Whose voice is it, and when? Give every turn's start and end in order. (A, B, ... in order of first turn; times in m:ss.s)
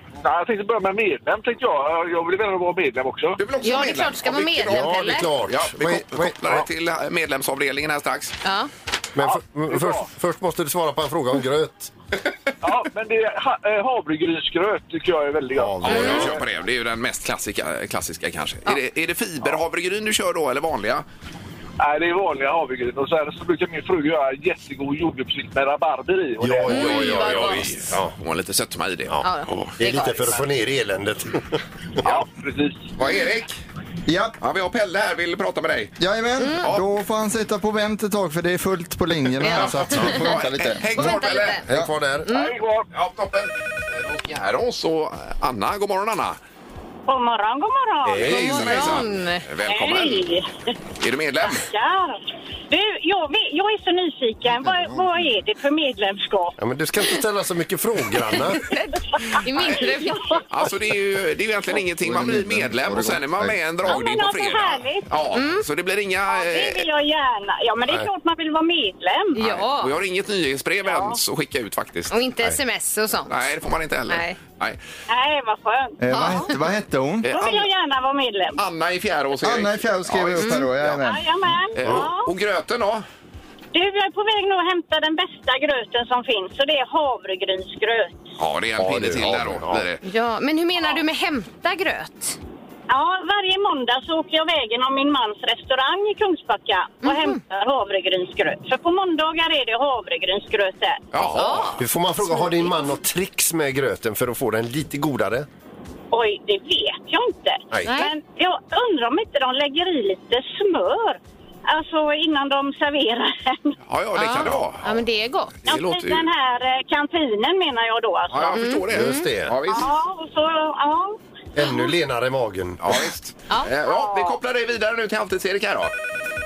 0:00.2-0:03.4 A
0:03.4-0:08.4 B
0:03.6-0:05.3 C
0:04.6-0:06.7 D
0:08.4-0:08.7 C
0:09.1-0:11.9 D
0:09.2-0:10.1 A
0:12.6-0:16.4 A
0:15.5-0:16.4 D
0:15.8-0:21.0 B
0:15.9-0:16.2 C
0:21.8-0:27.2 A
0:26.4-0:28.1 D
0:26.7-0:27.7 C
0:26.7-0:29.7 B
0:29.1-0:31.6 D
0:29.2-0:30.4 C
0:32.0-0:32.9 A
0:32.9-0:33.6 B
0:34.1-0:34.4 E
0:34.4-0:36.0 B
0:36.0-0:40.9 E
0:39.4-0:40.2 C
0:39.5-0:41.6 B
0:40.9-0:41.6 C
0:41.7-0:42.3 D
0:42.2-0:42.5 C
0:42.3-0:42.8 A
0:42.9-0:46.4 B
0:47.1-0:48.3 F
0:48.0-0:48.7 D
0:48.2-0:50.2 B
0:48.2-0:49.4 C
0:49.6-0:50.6 F
0:51.0-0:51.6 B
0:51.5-0:56.5 F
0:56.6-0:58.7 D
0:58.5-1:00.4 C
0:59.2-1:00.4 F
1:00.5-1:06.8 B
1:02.0-1:03.6 E
1:03.8-1:05.1 F
1:05.3-1:05.6 C
1:06.3-1:09.4 F
1:09.3-1:09.9 C
1:09.4-1:12.1 B
1:10.8-1:11.2 F
1:12.1-1:13.3 C
1:13.3-1:14.8 B
1:14.1-1:14.4 C
1:15.1-1:16.4 F
1:16.0-1:17.3 E
1:16.1-1:16.5 C
1:17.2-1:17.7 B
1:17.3-1:18.6 F
1:18.6-1:21.0 B
1:19.4-1:21.2 E
1:20.4-1:20.7 C
1:21.0-1:22.3 F
1:21.7-1:23.0 B
1:21.8-1:22.1 D
1:23.7-1:28.2 F
1:28.4-1:30.0 B
1:28.8-1:29.8 D
1:30.0-1:32.4 C
1:32.9-1:41.0 F
1:37.0-1:37.4 C
1:41.1-1:41.7 B
1:41.2-1:45.5 D
1:41.3-1:42.7 C
1:46.1-1:53.7 F
1:47.7-1:48.0 D
1:47.8-1:48.1 C
1:53.9-1:55.0 B
1:54.2-1:55.5 C
1:55.6-1:56.2 B
1:55.7-1:58.7 F
1:58.3-1:59.9 B
1:58.5-1:59.3 C
1:58.9-1:59.6 D
1:59.7-2:01.2 F
2:01.5-2:03.0 D
2:02.8-2:05.9 B
2:03.9-2:04.3 F